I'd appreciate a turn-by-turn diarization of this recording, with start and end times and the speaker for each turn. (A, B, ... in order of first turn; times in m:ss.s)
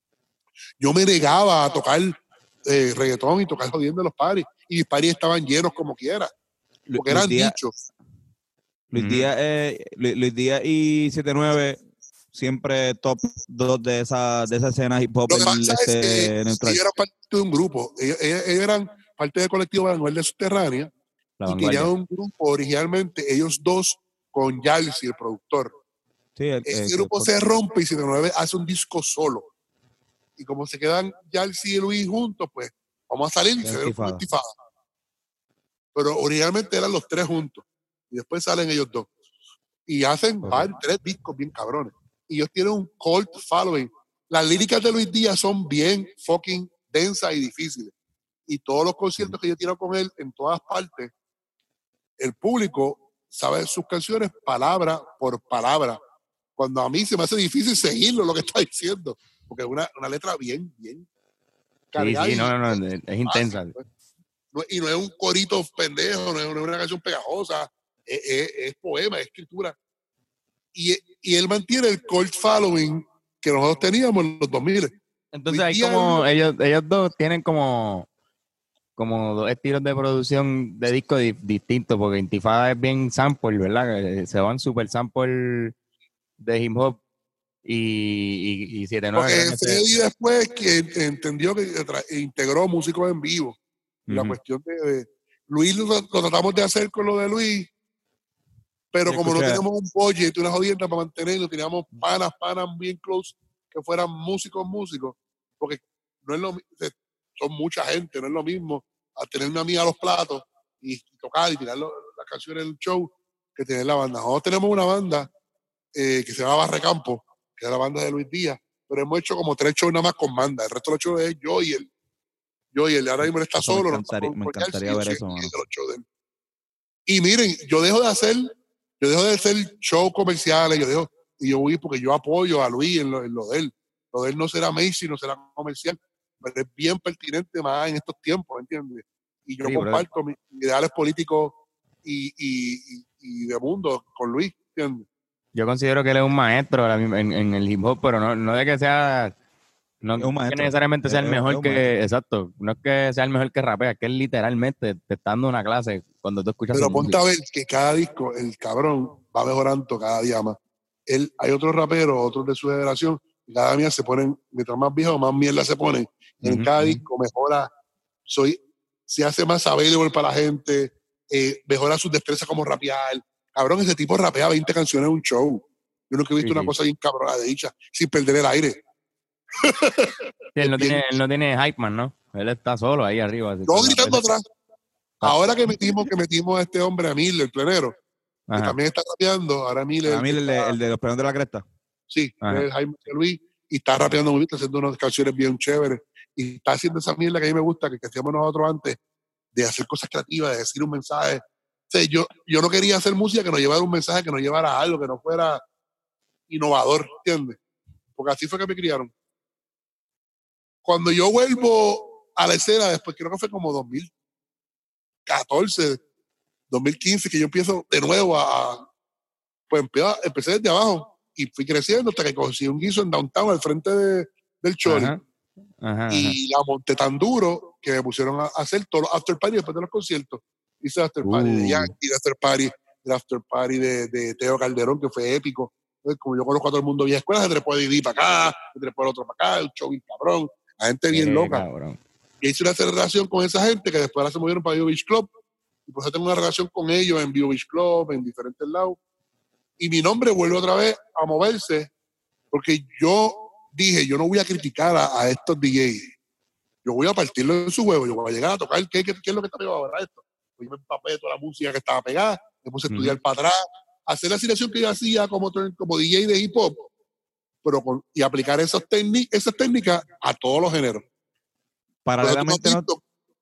0:00.8-0:06.3 A
0:06.9-0:07.6 B
0:07.0-0:07.7 A
0:08.9-0:11.8 B
0:08.9-0:09.3 C
0:12.3-0:16.8 B
0:15.3-0:20.9 A
0:21.4-0:21.9 C
0:21.5-0:25.7 A
0:26.4-0:27.4 B
0:26.7-0:29.5 A
0:30.4-0:34.5 A
0:33.6-0:34.2 B
0:35.9-0:39.1 A
0:39.9-0:47.9 A
0:40.4-0:40.7 C
0:48.5-0:51.1 A
0:52.2-0:56.0 A
0:56.6-1:01.1 A
1:01.9-1:03.8 A
1:02.0-1:03.7 C
1:04.5-1:09.8 A
1:10.7-1:14.9 A
1:15.3-1:18.1 C
1:15.5-1:16.2 A
1:19.0-1:25.7 C
1:26.4-1:27.0 C
1:27.6-1:30.0 C
1:29.1-1:33.6 A
1:34.1-1:34.4 B
1:34.1-1:37.7 A
1:38.9-1:55.3 A
1:39.1-1:39.6 B
1:55.9-2:01.9 A
2:02.7-2:06.0 A
2:03.2-2:05.5 B
2:07.1-2:25.1 A
2:19.7-2:20.0 C
2:25.6-2:29.4 C
2:30.0-2:37.2 C
2:30.2-2:31.9 B
2:36.7-2:40.6 A
2:41.1-2:47.7 A
2:46.4-2:47.0 C
2:48.3-2:58.8 A
2:56.4-2:56.7 C
2:59.6-3:01.1 A
3:00.6-3:04.2 C
3:03.7-3:04.4 A
3:05.2-3:07.9 A
3:08.5-3:08.8 C
3:08.6-3:10.7 A
3:10.1-3:11.6 B
3:12.1-3:19.0 A
3:19.5-3:25.6 A
3:26.5-3:27.6 A
3:28.2-3:29.1 A
3:30.8-3:34.1 A
3:35.3-3:36.0 A
3:36.7-3:38.9 A
3:39.7-3:45.1 A
3:44.9-3:45.2 C
3:45.8-3:46.4 C
3:46.1-4:01.6 A
3:51.2-3:51.9 C
4:01.1-4:02.0 C
4:02.4-4:05.3 A
4:05.9-4:09.0 A
4:09.8-4:11.9 A
4:12.5-4:16.1 A
4:16.8-4:26.9 A
4:27.6-4:31.0 A
4:32.0-4:32.8 B
4:32.2-4:33.0 A